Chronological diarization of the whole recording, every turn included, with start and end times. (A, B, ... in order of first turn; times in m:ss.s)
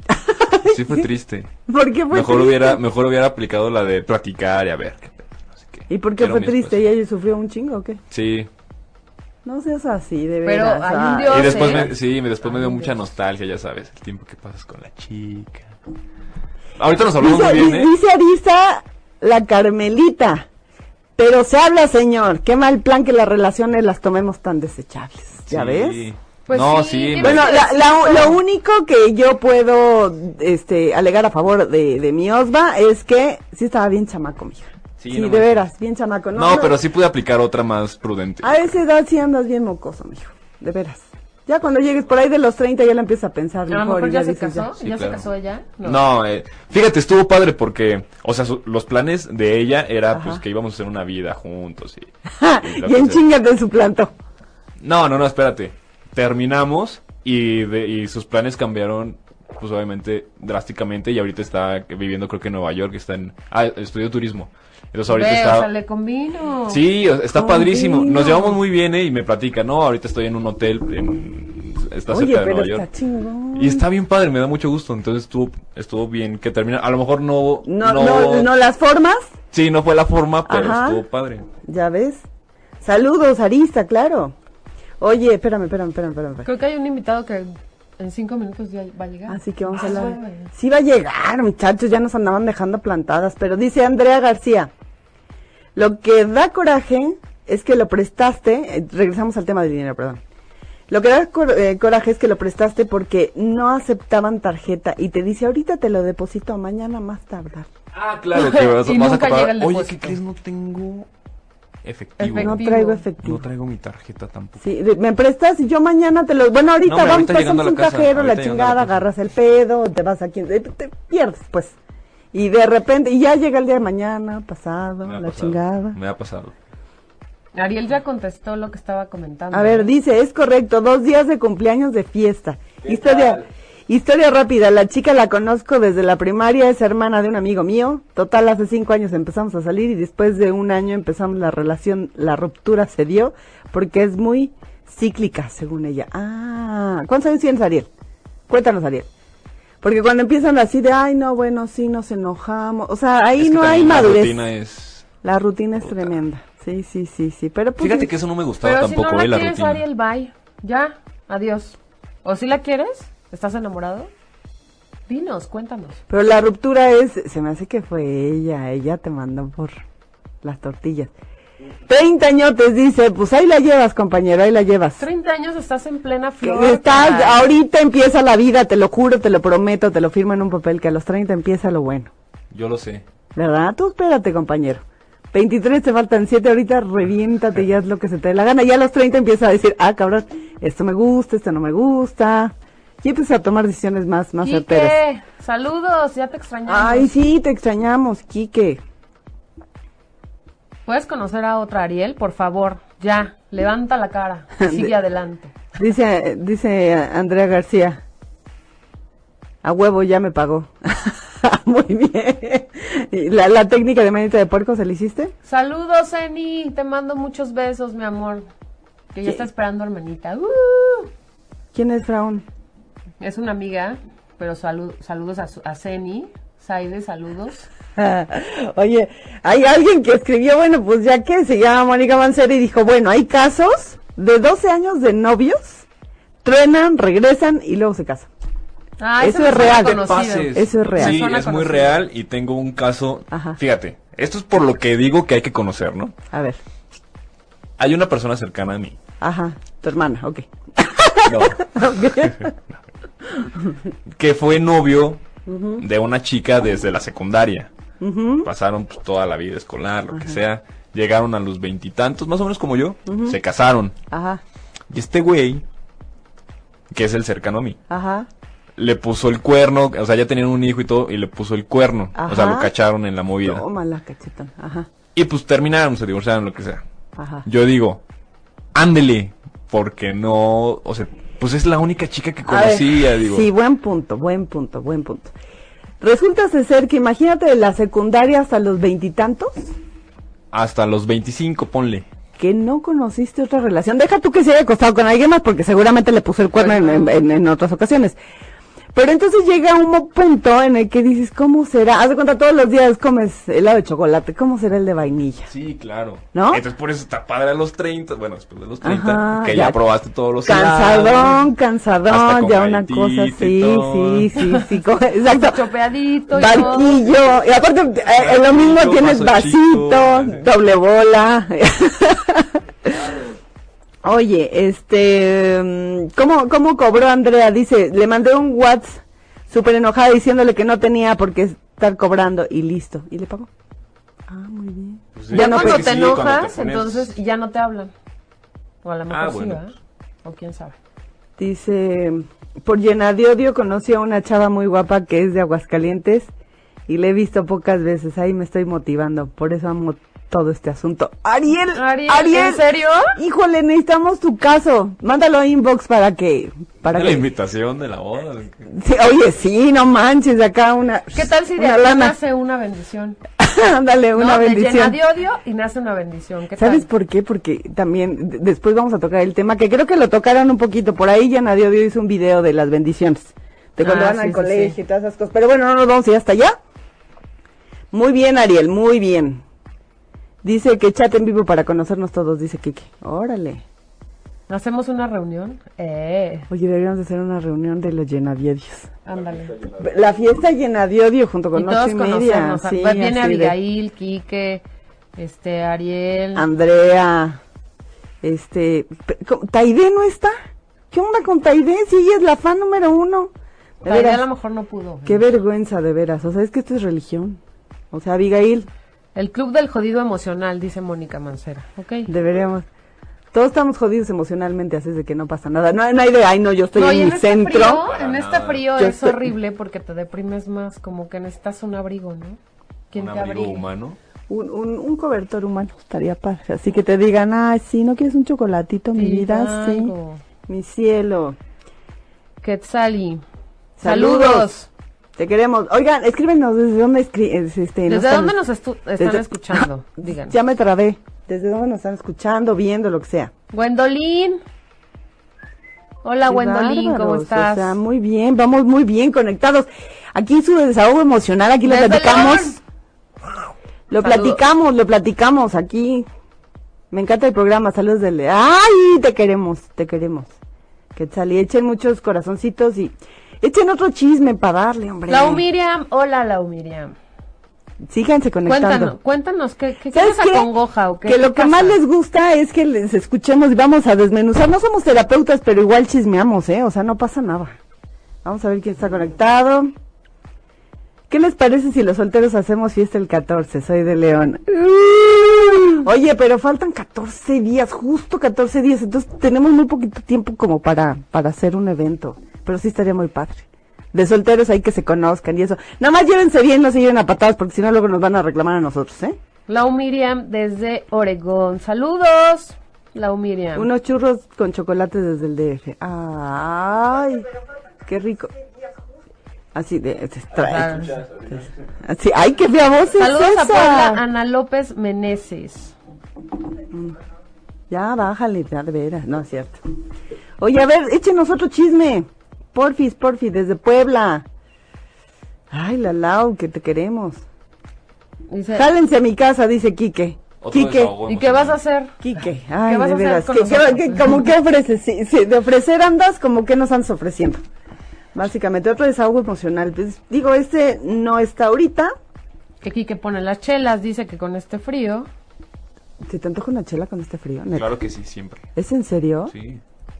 0:00.1-0:01.0 A
0:00.6-0:01.5 B
0:01.7-0:02.8 A
0:02.1-0:06.8 B
0:05.9-0:08.0 A
0:08.1-0:08.5 B
0:09.4-0:11.9 A
0:10.4-0:11.9 C
0:11.3-0:15.7 B
0:12.4-0:12.9 C
0:16.8-0:17.9 B
0:17.2-0:20.5 A
0:21.2-0:26.0 A
0:25.4-0:27.6 B
0:26.5-0:28.4 C
0:27.2-0:36.8 A
0:35.0-0:35.7 B
0:36.3-0:38.6 B
0:38.4-0:44.7 A
0:43.7-0:46.0 C
0:44.8-0:45.2 B
0:45.8-0:52.1 B
0:50.1-0:50.4 A
0:52.3-0:54.1 A
0:52.6-0:53.2 B
0:54.8-1:05.7 B
1:05.1-1:06.8 C
1:06.7-1:12.8 B
1:07.3-1:08.6 A
1:12.1-1:13.8 A
1:13.5-1:18.5 B
1:17.6-1:19.3 A
1:19.5-1:21.4 B
1:20.5-1:21.0 A
1:21.6-1:22.2 A
1:22.8-1:24.3 A
1:25.0-1:26.5 A
1:26.4-1:30.5 C
1:29.3-1:34.7 A
1:35.8-1:40.2 A
1:40.9-1:47.7 A
1:47.9-1:51.1 B
1:48.3-1:50.2 C
1:51.8-1:52.6 B
1:52.2-1:53.0 C
1:52.4-1:53.4 A
1:53.2-1:54.6 B
1:54.6-2:01.8 A
1:56.8-1:59.0 B
2:02.3-2:06.0 A
2:05.0-2:06.5 B
2:07.5-2:09.9 C
2:09.5-2:27.9 A
2:12.8-2:13.5 B
2:28.5-2:29.1 A
2:29.8-2:34.4 A
2:33.4-2:35.1 B
2:35.2-2:38.1 A
2:35.8-2:36.1 B
2:37.8-2:39.8 B
2:38.6-2:44.1 C
2:45.1-2:46.0 C
2:46.1-2:49.8 A
2:50.4-2:51.1 A
2:51.8-2:55.0 A
2:55.0-2:57.4 C
2:56.4-3:02.1 A
3:02.5-3:03.0 B
3:03.3-3:15.0 A
3:14.4-3:17.1 C
3:16.7-3:18.8 A
3:20.8-3:25.5 C
3:24.6-3:24.9 A
3:25.8-3:28.0 A
3:29.6-3:35.3 A
3:35.4-3:38.5 C
3:39.1-3:41.1 C
3:41.7-3:42.4 A
3:43.2-3:47.7 C
3:47.9-3:55.8 A
3:56.4-3:58.3 A
3:59.0-4:02.0 C
3:59.2-4:01.2 A
3:59.4-4:06.1 B
4:03.3-4:03.6 A
4:06.3-4:06.6 A
4:07.8-4:09.0 B
4:09.2-4:12.5 A
4:11.2-4:11.7 B
4:13.4-4:13.8 A
4:14.2-4:15.2 B
4:15.4-4:15.8 A
4:15.8-4:17.7 B
4:18.0-4:18.5 A
4:18.4-4:24.0 B
4:20.1-4:20.4 A
4:23.0-4:23.4 A
4:24.1-4:24.4 A
4:24.9-4:25.6 B
4:26.9-4:27.8 B
4:27.9-4:28.3 A
4:28.8-4:33.6 B
4:32.1-4:32.7 A
4:33.4-4:34.9 A
4:35.1-4:36.8 B
4:37.2-4:37.4 A
4:37.4-4:38.0 B
4:38.7-4:43.5 B
4:42.4-4:45.3 A
4:46.0-4:49.7 A
4:50.5-4:52.0 B
4:52.4-4:58.2 A
4:56.6-4:57.2 C
4:58.9-5:05.5 A
5:05.5-5:11.5 B
5:06.3-5:06.6 A
5:08.8-5:09.8 A
5:10.4-5:15.6 A
5:12.1-5:14.3 B
5:15.3-5:17.0 C
5:16.3-5:23.2 A
5:18.1-5:20.4 B
5:24.0-5:33.5 A
5:34.3-5:36.0 A
5:35.1-5:37.1 B
5:35.3-5:37.9 C
5:38.8-5:40.8 C
5:39.1-5:39.6 B
5:41.4-5:46.3 A
5:46.9-5:57.3 A
5:51.7-5:53.2 C
5:56.8-5:58.7 B
5:58.7-6:02.2 A
6:01.1-6:03.2 C
6:03.4-6:05.0 A
6:04.1-6:06.9 C
6:06.6-6:16.6 A
6:13.8-6:14.8 C
6:17.9-6:19.4 A
6:20.4-6:23.6 A
6:24.5-6:26.5 C
6:26.5-6:28.9 A
6:29.0-6:29.5 C
6:29.1-6:29.9 B
6:29.8-6:33.6 A
6:31.5-6:34.6 C
6:35.2-6:36.5 C
6:36.3-6:37.4 A
6:38.2-6:40.3 A
6:40.9-6:43.3 A
6:43.8-6:44.2 A
6:43.8-6:45.3 C
6:45.0-6:47.4 A
6:47.9-6:48.7 A
6:49.1-6:52.1 C
6:52.1-6:52.7 A
6:53.3-6:57.8 A
6:56.7-7:02.4 C
6:57.5-6:58.7 B
6:58.8-6:59.3 A
7:02.9-7:03.6 C
7:02.9-7:04.0 B
7:04.3-7:09.9 A
7:08.9-7:10.2 C
7:10.5-7:11.4 A
7:12.4-7:13.2 C
7:13.8-7:14.5 A
7:13.8-7:14.7 C
7:15.2-7:18.4 A
7:17.9-7:20.4 C
7:19.0-7:23.3 A
7:23.5-7:24.4 C
7:26.0-7:27.8 C
7:26.3-7:32.6 A
7:31.6-7:32.6 C
7:33.9-7:36.1 A
7:34.0-7:34.4 C
7:36.9-7:40.3 A
7:40.9-7:45.4 A
7:45.1-7:46.9 C
7:47.8-7:49.0 A
7:48.4-7:51.8 C
7:49.9-7:50.5 A
7:51.0-7:57.6 A
7:58.2-7:59.7 A
8:01.1-8:19.2 A
8:19.5-8:23.7 C
8:23.5-8:27.3 A
8:27.8-8:28.3 A
8:29.5-8:30.9 A
8:30.4-8:31.0 C
8:30.5-8:31.4 B
8:31.8-8:34.0 A
8:33.0-8:35.7 C
8:36.7-8:37.0 A
8:37.7-8:39.6 A
8:40.4-8:44.2 A
8:45.5-8:47.2 A
8:48.3-8:48.7 C
8:48.5-8:50.9 A
8:50.4-8:51.6 B
8:51.0-8:51.9 C
8:52.0-8:57.4 A
8:52.6-8:54.2 C
8:58.1-9:01.9 A
9:02.6-9:05.1 C
9:06.0-9:07.7 A
9:07.5-9:08.4 B
9:08.6-9:09.3 A
9:09.3-9:09.6 B